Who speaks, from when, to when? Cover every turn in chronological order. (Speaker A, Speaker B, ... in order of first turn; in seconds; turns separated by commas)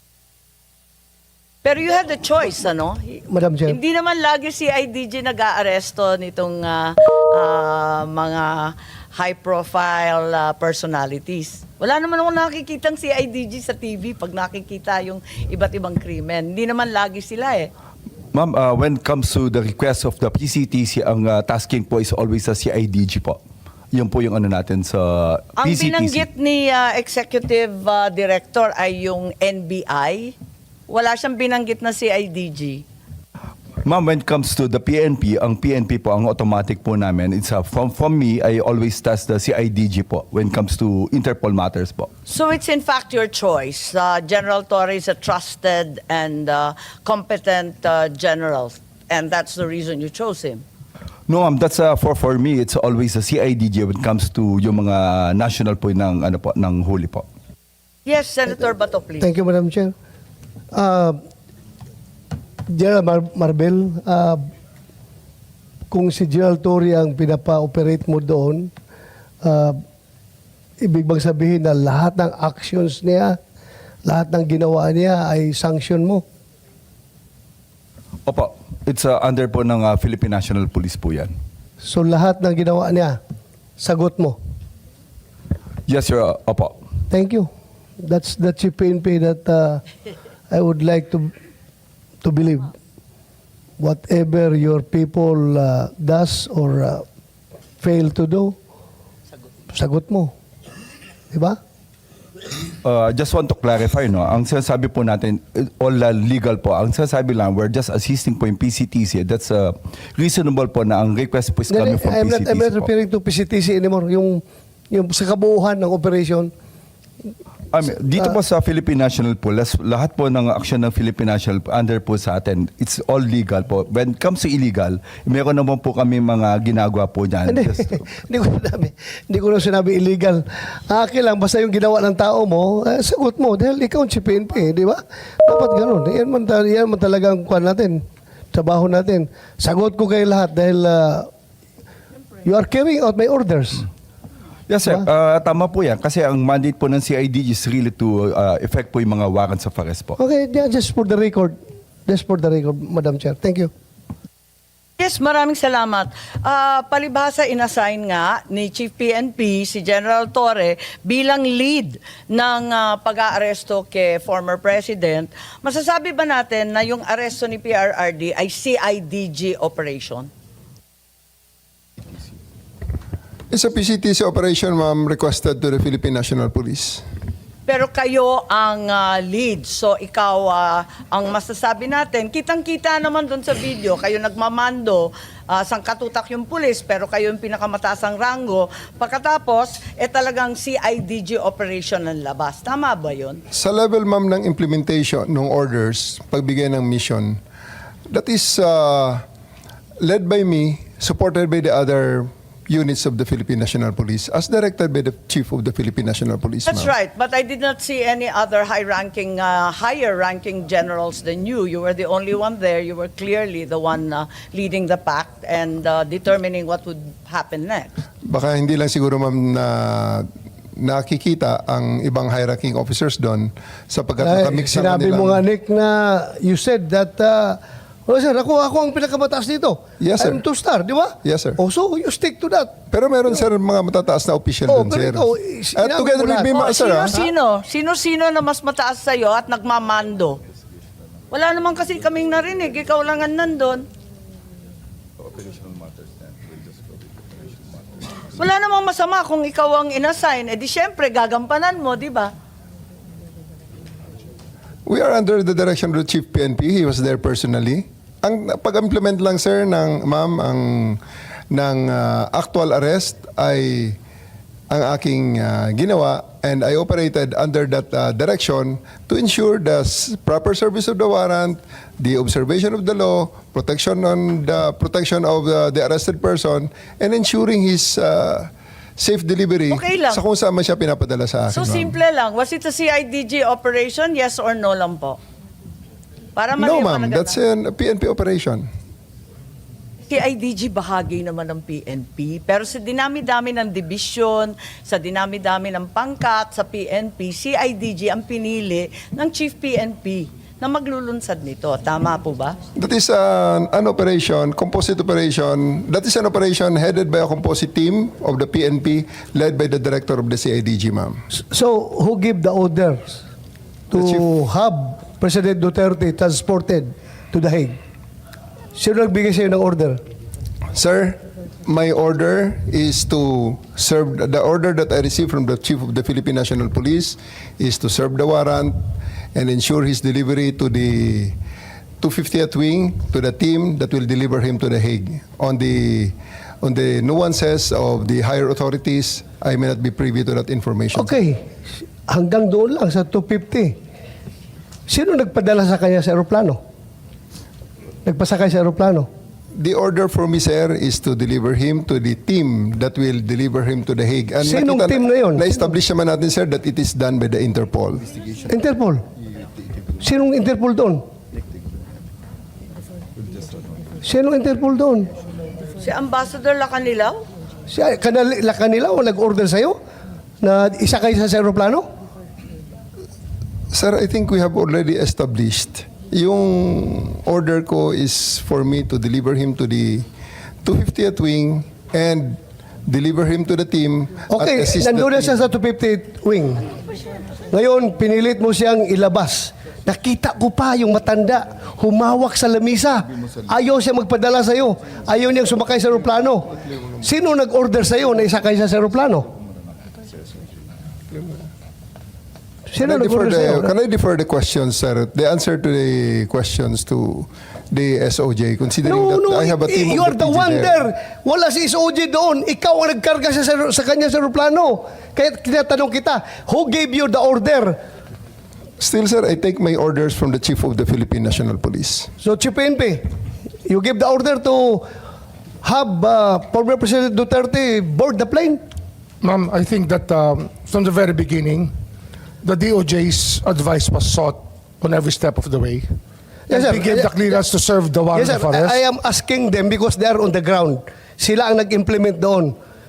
Speaker A: 1.6-17.7, Speaker B: 3.3-3.8, Speaker C: 18.3-23.4, Speaker C: 23.9-26.2, Speaker A: 25.6-30.4, Speaker A: 30.9-32.8, Speaker C: 33.9-42.1, Speaker A: 42.3-50.6, Speaker C: 51.3-57.2, Speaker A: 58.1-59.3, Speaker B: 59.2-59.9, Speaker B: 60.7-61.2, Speaker B: 62.7-64.5, Speaker B: 65.9-68.7, Speaker B: 69.4-69.8, Speaker B: 70.8-73.4, Speaker B: 74.1-76.2, Speaker C: 78.3-81.3, Speaker B: 81.8-83.2, Speaker B: 83.8-84.4, Speaker C: 85.9-86.8, Speaker B: 87.1-89.8, Speaker B: 90.5-91.3, Speaker B: 92.2-92.7, Speaker B: 93.8-97.0, Speaker B: 97.8-98.6, Speaker B: 99.7-100.3, Speaker B: 101.3-101.6, Speaker C: 102.8-112.9, Speaker B: 111.7-116.5, Speaker C: 117.7-128.2, Speaker B: 127.5-141.3, Speaker B: 142.4-143.9, Speaker C: 144.7-150.2, Speaker B: 150.2-153.7, Speaker A: 155.0-170.3, Speaker D: 173.5-177.0, Speaker A: 177.7-193.4, Speaker D: 193.5-197.4, Speaker D: 198.1-199.2, Speaker D: 200.0-206.9, Speaker A: 206.7-217.9, Speaker D: 218.3-225.4, Speaker B: 224.2-232.8, Speaker D: 230.0-230.4, Speaker D: 231.2-231.6, Speaker D: 232.9-237.3, Speaker B: 234.7-236.5, Speaker A: 236.5-240.4, Speaker A: 241.3-243.9, Speaker A: 248.3-252.3, Speaker D: 254.9-264.0, Speaker D: 264.7-282.0, Speaker A: 279.7-280.2, Speaker A: 281.5-285.2, Speaker A: 286.4-287.3, Speaker D: 286.6-288.7, Speaker A: 290.1-302.6, Speaker D: 302.8-311.2, Speaker B: 311.3-313.2, Speaker D: 313.9-314.3, Speaker B: 313.9-317.8, Speaker B: 318.8-320.0, Speaker D: 320.7-328.8, Speaker D: 329.3-331.4, Speaker D: 332.0-341.1, Speaker B: 340.9-341.5, Speaker B: 342.1-343.8, Speaker B: 344.9-346.6, Speaker B: 348.1-349.1, Speaker D: 349.6-358.0, Speaker B: 354.4-355.7, Speaker B: 358.5-359.0, Speaker B: 360.0-361.0, Speaker B: 364.0-365.1, Speaker A: 365.8-367.2, Speaker B: 367.7-369.8, Speaker B: 370.4-371.9, Speaker D: 373.7-380.1, Speaker D: 380.6-385.4, Speaker B: 384.3-386.7, Speaker B: 387.5-399.3, Speaker D: 401.1-401.4, Speaker B: 402.7-403.7, Speaker D: 402.8-410.9, Speaker B: 408.9-417.8, Speaker D: 418.8-422.1, Speaker B: 422.2-423.1, Speaker B: 423.7-424.9, Speaker B: 425.6-428.6, Speaker E: 429.2-431.7, Speaker E: 432.4-435.9, Speaker B: 436.5-437.4, Speaker E: 436.5-438.8, Speaker B: 438.1-442.6